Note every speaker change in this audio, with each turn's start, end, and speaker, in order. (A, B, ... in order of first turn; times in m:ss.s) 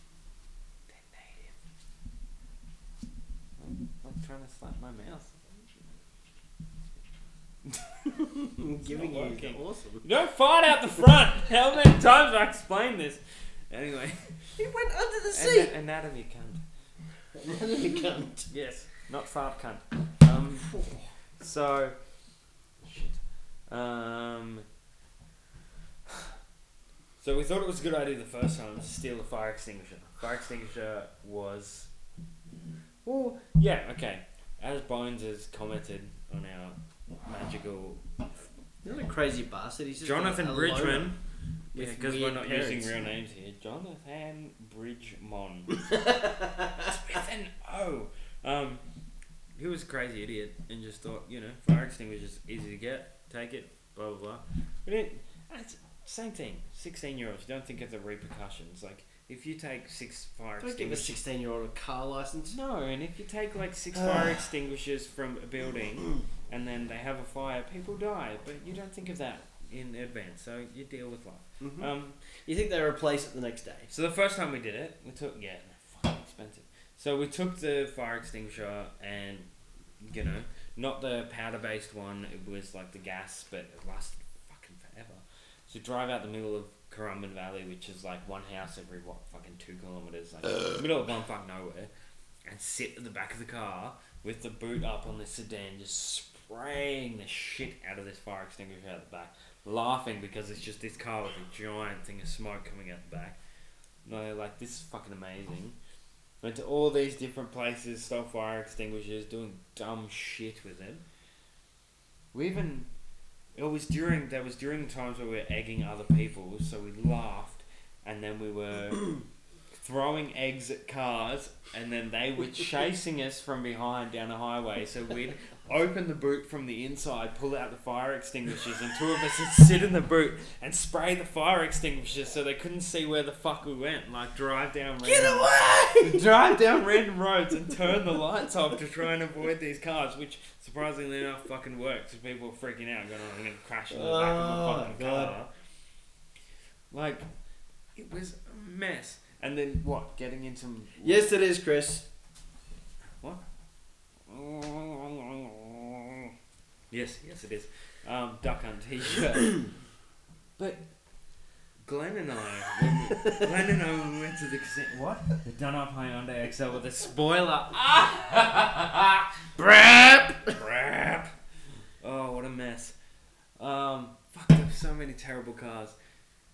0:00.9-0:01.6 A
0:03.6-0:05.8 A
0:07.6-0:08.2 A
0:08.4-0:10.1 B
0:08.8-0:14.4 A
0:14.6-0:15.7 B
0:15.3-0:16.6 A
0:17.3-0:18.5 B
0:18.5-0:20.8 A
0:20.8-0:21.0 B
0:21.4-0:22.0 A
0:22.8-0:24.7 A
0:26.1-0:26.3 A
0:27.2-0:31.9 A
0:33.0-0:38.0 A
0:38.8-0:41.2 B
0:40.0-0:41.2 A
0:41.7-0:43.0 B
0:41.7-0:45.9 A
0:46.0-0:46.6 B
0:46.8-0:48.8 A
0:49.6-1:01.2 A
1:00.6-1:02.6 B
1:02.5-1:12.2 A
1:04.0-1:04.4 B
1:11.6-1:11.9 B
1:12.5-1:13.9 B
1:13.9-1:19.5 A
1:20.0-1:31.9 A
1:32.5-1:43.4 A
1:44.0-1:45.8 A
1:46.4-1:51.0 A
1:52.3-1:52.9 A
1:53.6-1:59.2 A
1:59.7-2:25.5 A
2:15.0-2:16.3 B
2:23.9-2:25.4 B
2:26.9-2:27.3 A
2:28.0-2:31.4 A
2:31.0-2:32.1 B
2:34.3-2:36.3 A
2:36.9-2:39.7 A
2:40.6-2:40.8 A
2:41.8-2:49.3 A
2:49.6-2:50.6 B
2:50.4-2:51.3 A
2:52.0-2:53.0 A
2:53.6-2:56.0 A